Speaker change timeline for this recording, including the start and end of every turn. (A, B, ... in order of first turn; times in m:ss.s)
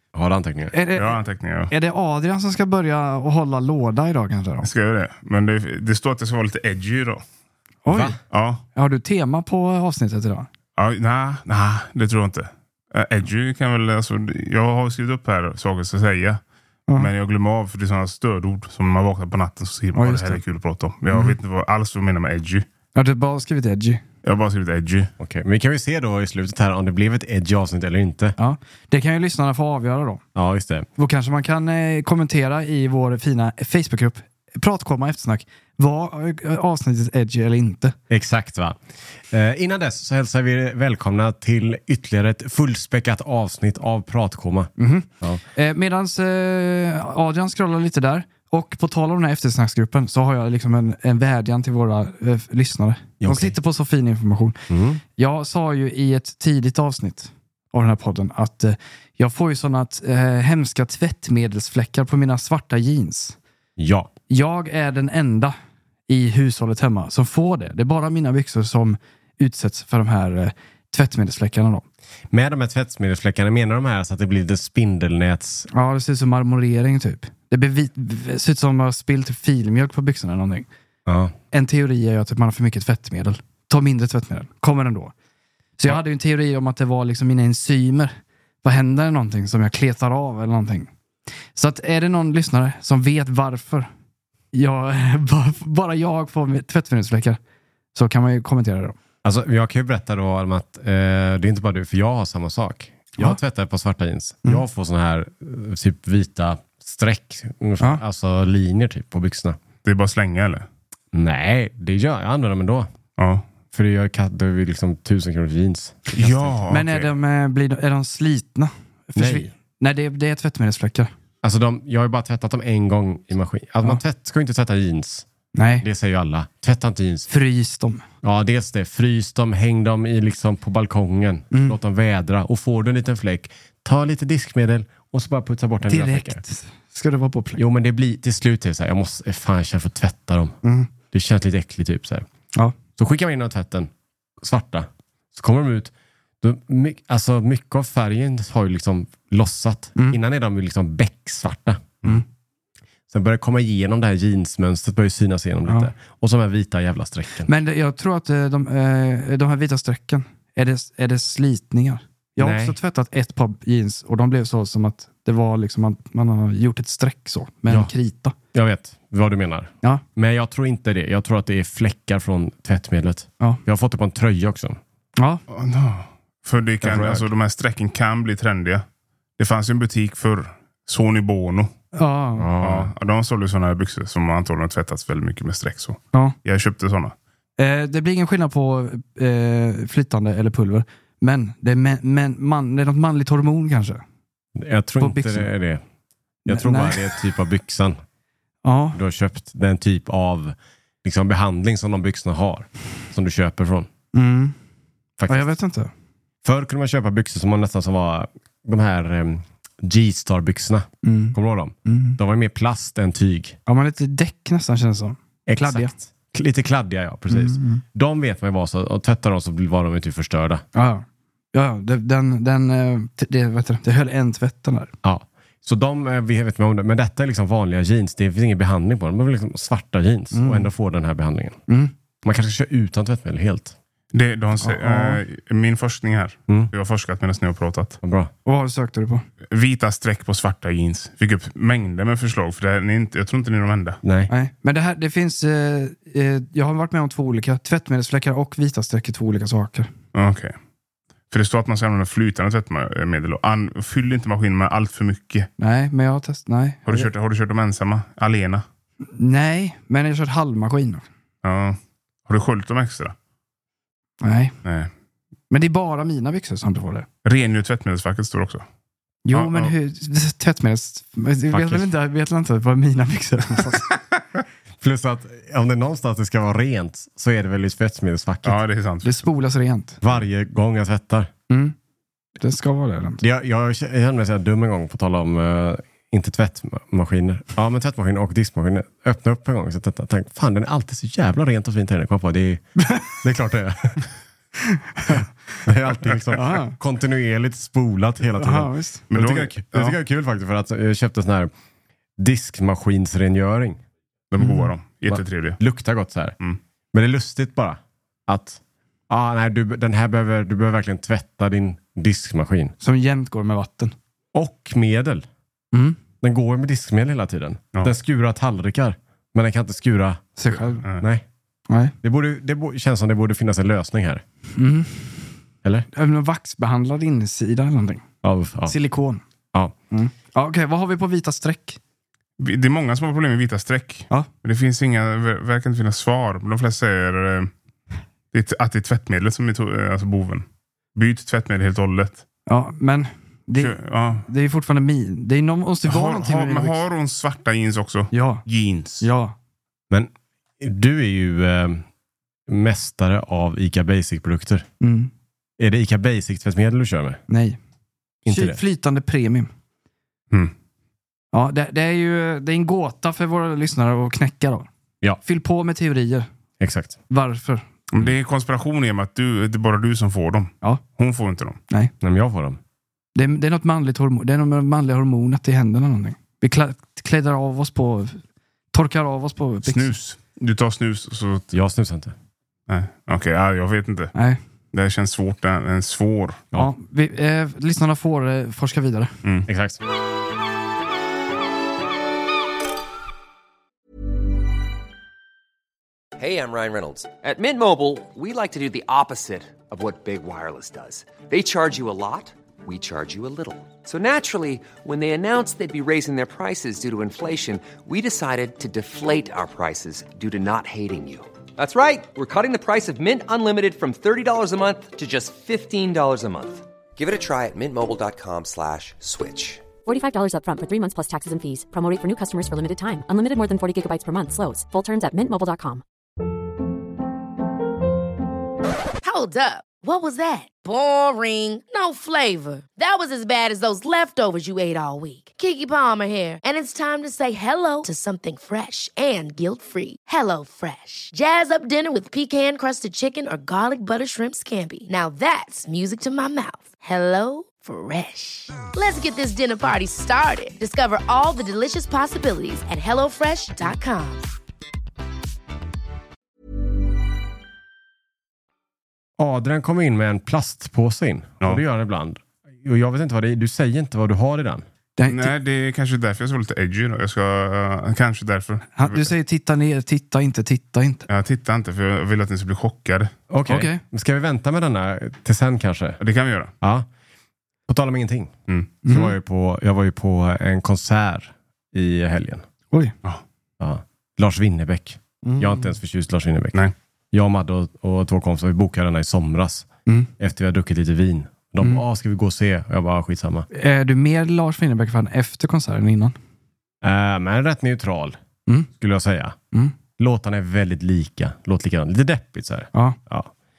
0:00.1-0:00.7 A
0:00.7-0:04.7 B
0:01.0-0:01.7 C
0:04.6-0:07.2 C
0:07.8-0:08.2 B
0:07.9-0:08.2 A
0:08.3-0:08.6 C
0:08.7-0:10.5 B
0:10.8-0:16.4 C
0:16.9-0:22.6 C
0:19.9-0:20.4 B
0:22.9-0:24.0 B
0:24.2-0:25.1 C
0:25.2-0:28.4 A
0:28.4-0:30.2 B
0:30.3-0:30.9 A
0:31.0-0:38.0 B
0:38.1-0:45.4 A
0:44.8-0:54.6 B
0:53.2-0:53.5 A
0:54.7-0:55.0 A
0:55.2-1:03.4 B
1:03.8-1:04.1 A
1:04.3-1:05.5 B
1:06.1-1:11.8 B
1:12.3-1:15.7 A
1:15.7-1:20.7 B
1:21.0-1:21.3 A
1:21.5-1:25.1 B
1:25.8-1:30.9 B
1:31.5-1:33.9 B
1:34.5-1:37.4 B
1:37.9-1:39.0 B
1:39.2-1:49.6 A
1:49.8-1:50.6 C
1:51.1-1:52.9 A
1:53.2-1:53.5 C
1:53.7-1:56.6 A
1:56.1-1:57.1 C
1:56.7-2:01.1 B
1:59.2-1:59.5 A
2:01.4-2:05.3 A
2:05.5-2:05.8 B
2:05.8-2:07.3 A
2:07.3-2:08.0 B
2:08.2-2:16.4 A
2:11.5-2:11.8 B
2:15.8-2:17.6 B
2:17.6-2:20.6 A
2:20.6-2:20.9 B
2:21.1-2:22.2 A
2:23.0-2:32.0 A
2:33.1-2:37.5 A
2:35.6-2:35.9 B
2:37.4-2:48.3 B
2:42.4-2:42.8 A
2:48.5-2:54.8 A
2:55.2-2:55.4 B
2:55.5-2:58.8 C
2:56.8-2:57.3 A
2:59.4-3:01.7 C
3:01.9-3:02.5 B
3:02.4-3:02.9 A
3:02.6-3:07.2 C
3:07.6-3:14.0 B
3:14.6-3:15.8 A
3:15.0-3:15.5 B
3:16.4-3:17.2 B
3:16.5-3:18.0 A
3:18.6-3:19.0 B
3:18.9-3:23.9 A
3:24.1-3:24.5 B
3:25.2-3:25.5 A
3:25.3-3:25.9 B
3:26.4-3:33.6 A
3:31.0-3:32.2 B
3:33.6-3:35.9 B
3:35.4-3:40.6 A
3:37.3-3:37.8 B
3:40.7-3:44.9 B
3:45.0-3:51.6 A
3:50.3-3:50.7 B
3:51.7-3:51.9 B
3:52.2-3:53.8 A
3:54.1-3:58.0 C
3:54.6-3:55.2 B
3:58.0-3:58.3 A
3:58.4-3:59.2 B
3:59.5-4:04.0 C
4:04.0-4:04.3 A
4:04.3-4:09.9 B
4:10.1-4:10.5 C
4:11.3-4:15.5 C
4:15.6-4:17.1 B
4:16.9-4:18.6 C
4:19.1-4:21.0 B
4:21.4-4:23.1 C
4:24.2-4:24.5 B
4:24.6-4:24.9 C
4:25.5-4:27.1 B
4:27.2-4:28.6 C
4:29.2-4:33.9 B
4:29.3-4:29.7 C
4:31.5-4:31.9 A
4:34.8-4:38.6 A
4:38.4-4:39.1 C
4:39.0-4:40.0 B
4:40.0-4:41.3 A
4:41.5-4:41.7 B
4:42.4-4:43.2 B
4:43.2-4:52.6 A
4:52.8-4:53.2 B
4:53.2-4:54.0 A
4:54.6-4:55.2 B
4:55.1-5:01.5 A
4:56.3-4:56.7 B
4:58.4-4:59.0 B
4:59.1-5:00.0 C
5:02.2-5:03.8 A
5:04.3-5:05.6 C
5:05.1-5:06.4 A
5:06.9-5:12.7 A
5:12.8-5:13.9 B
5:14.3-5:15.2 A
5:15.7-5:16.0 B
5:16.2-5:21.2 A
5:20.4-5:20.8 B
5:22.0-5:24.2 A
5:24.6-5:25.2 B
5:25.9-5:28.0 B
5:28.2-5:28.7 A
5:28.7-5:29.2 B
5:29.9-5:31.8 B
5:32.4-5:37.5 C
5:38.3-5:42.2 C
5:42.5-5:46.8 B
5:43.6-5:44.2 C
5:45.8-5:49.1 C
5:48.1-5:48.4 B
5:49.0-5:49.4 B
5:49.9-5:51.8 A
5:52.5-5:54.6 A
5:54.8-5:55.1 B
5:55.6-5:57.2 A
5:57.3-5:57.6 B
5:58.2-5:58.6 A
5:58.2-5:59.5 B
6:01.3-6:04.7 B
6:05.2-6:06.3 B
6:06.6-6:07.0 A
6:07.1-6:07.6 B
6:07.9-6:11.6 C
6:12.0-6:12.6 A
6:13.1-6:18.2 B
6:18.7-6:19.9 B
6:19.6-6:21.5 C
6:21.5-6:22.1 A
6:22.7-6:24.1 C
6:24.1-6:24.4 B
6:24.7-6:26.4 C
6:26.5-6:29.1 B
6:29.5-6:29.8 A
6:36.2-6:59.6 D
6:59.8-7:05.8 E
7:09.0-7:34.3 F
7:39.2-7:44.6 A
7:45.0-7:45.3 B
7:45.1-7:49.1 C
7:48.7-7:51.0 B
7:51.1-7:53.1 C
7:53.3-7:56.0 A
7:53.5-7:53.8 B
7:56.0-7:56.5 C
7:56.6-7:56.9 A
7:57.7-7:58.3 A
7:58.5-7:58.7 C
7:58.8-7:59.1 B
7:58.8-8:02.4 A
8:03.6-8:09.7 A
8:05.2-8:05.7 B
8:10.2-8:13.5 A
8:13.5-8:16.2 B
8:16.8-8:18.2 A
8:18.8-8:19.4 A
8:20.0-8:23.3 A